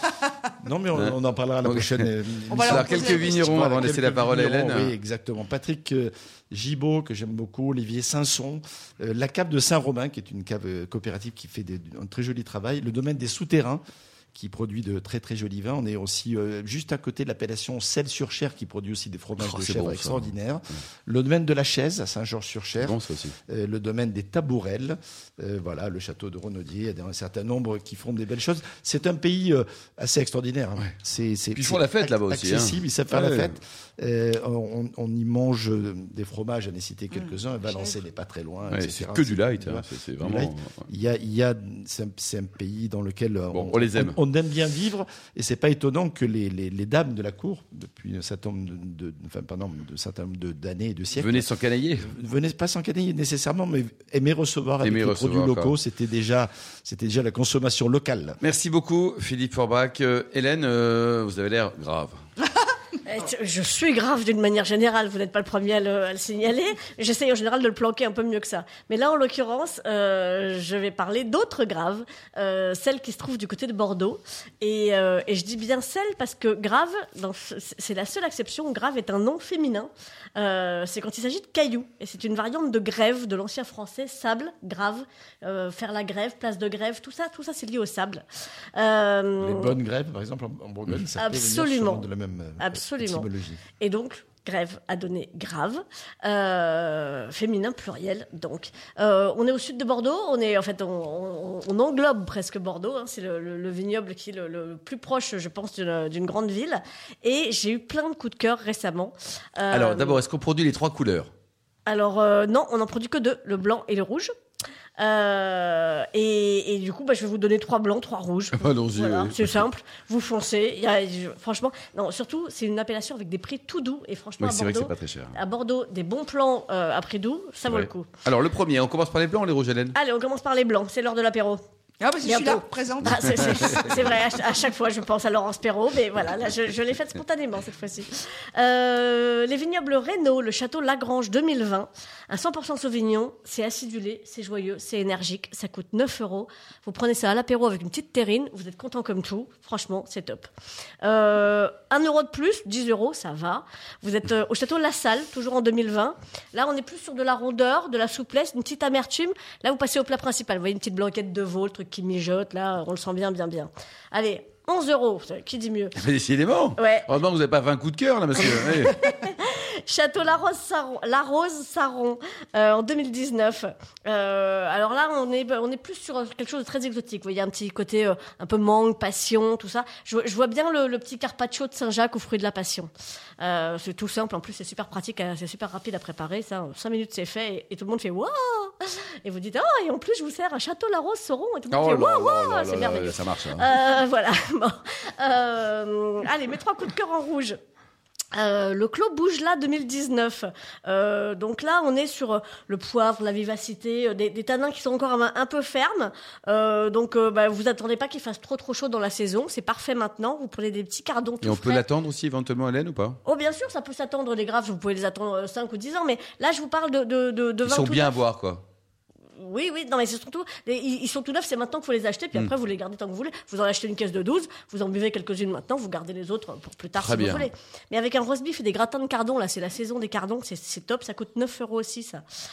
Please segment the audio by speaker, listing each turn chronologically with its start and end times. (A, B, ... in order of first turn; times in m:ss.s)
0:00.6-0:13.8 A
0:00.9-0:02.0 B
0:02.5-0:03.7 C
0:02.6-0:04.9 B
0:14.3-0:58.4 A
0:19.4-0:20.3 B
0:22.8-0:23.3 B
0:31.5-0:33.5 B
0:38.7-0:40.8 B
0:43.5-0:44.2 B
0:51.2-0:52.1 B
0:54.8-0:55.7 B
0:58.4-1:02.2 B
1:03.0-1:28.2 D
1:28.7-1:29.8 D
1:29.4-1:33.6 A
1:31.2-1:32.0 D
1:32.6-1:33.3 D
1:33.8-1:50.2 D
1:49.7-1:51.3 B
1:51.8-1:54.3 D
1:55.0-2:08.1 D
1:58.6-1:59.6 B
2:04.4-2:05.4 B
2:07.6-2:10.0 B
2:09.9-2:11.6 D
2:12.0-2:14.0 C
2:12.2-2:30.5 D
2:31.0-2:46.0 D
2:46.0-2:49.1 B
2:46.8-2:47.0 D
2:48.4-3:17.6 D
3:11.7-3:13.7 B
3:18.3-3:31.8 D
3:31.4-3:33.2 B
3:33.2-3:38.1 D
3:37.6-3:38.6 B
3:39.4-3:52.2 D
3:47.0-3:47.5 B